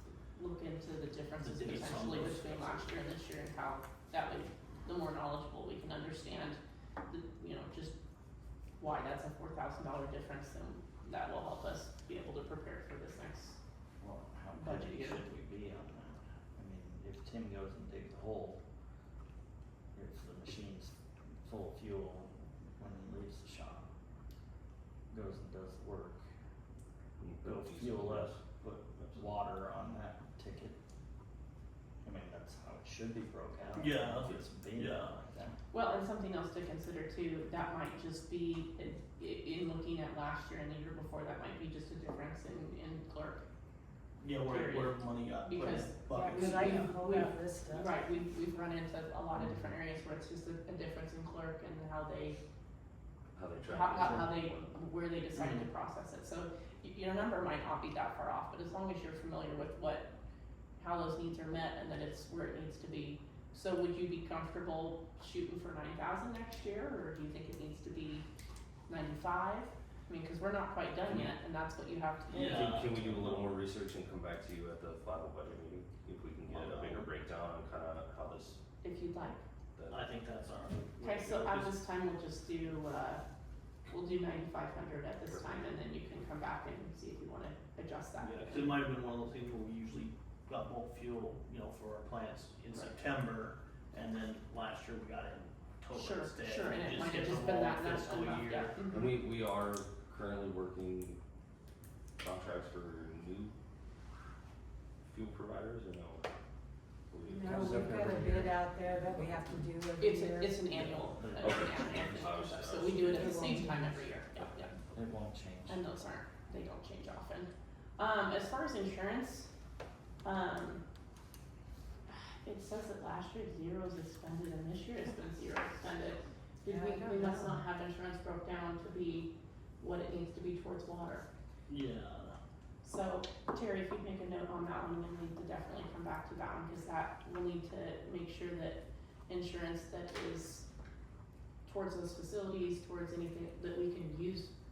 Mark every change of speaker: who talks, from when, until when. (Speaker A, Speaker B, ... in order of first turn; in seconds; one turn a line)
Speaker A: 0.3-8.0
Speaker B: 1.4-3.0
Speaker A: 8.8-13.6
Speaker C: 14.0-18.6
Speaker A: 14.6-15.2
Speaker C: 19.9-23.9
Speaker C: 25.1-26.2
Speaker D: 27.2-29.3
Speaker C: 27.4-30.8
Speaker C: 32.0-35.6
Speaker B: 33.8-35.2
Speaker A: 35.7-43.4
Speaker B: 44.2-47.2
Speaker A: 44.5-52.4
Speaker E: 46.1-48.0
Speaker D: 53.3-54.8
Speaker A: 53.6-60.1
Speaker B: 54.0-54.3
Speaker B: 55.4-55.7
Speaker A: 60.8-68.2
Speaker A: 68.9-72.9
Speaker B: 72.3-73.6
Speaker D: 72.3-78.6
Speaker B: 76.5-77.1
Speaker A: 78.8-79.4
Speaker D: 79.8-80.1
Speaker B: 79.9-81.8
Speaker A: 81.0-83.2
Speaker A: 83.9-88.9
Speaker B: 88.2-98.8
Speaker A: 92.7-93.0
Speaker A: 95.9-99.1
Speaker D: 98.9-101.2
Speaker D: 102.2-103.5
Speaker D: 105.0-106.3
Speaker D: 107.1-108.4
Speaker A: 107.3-107.7
Speaker C: 107.4-109.5
Speaker E: 107.5-110.7
Speaker A: 110.0-114.7
Speaker C: 110.7-111.7
Speaker D: 111.4-114.7
Speaker E: 113.1-114.0
Speaker C: 114.9-115.9
Speaker A: 115.7-119.5
Speaker A: 120.2-120.8
Speaker A: 122.1-131.3
Speaker E: 126.7-127.6
Speaker B: 131.7-132.4
Speaker A: 132.8-140.7
Speaker A: 141.7-144.5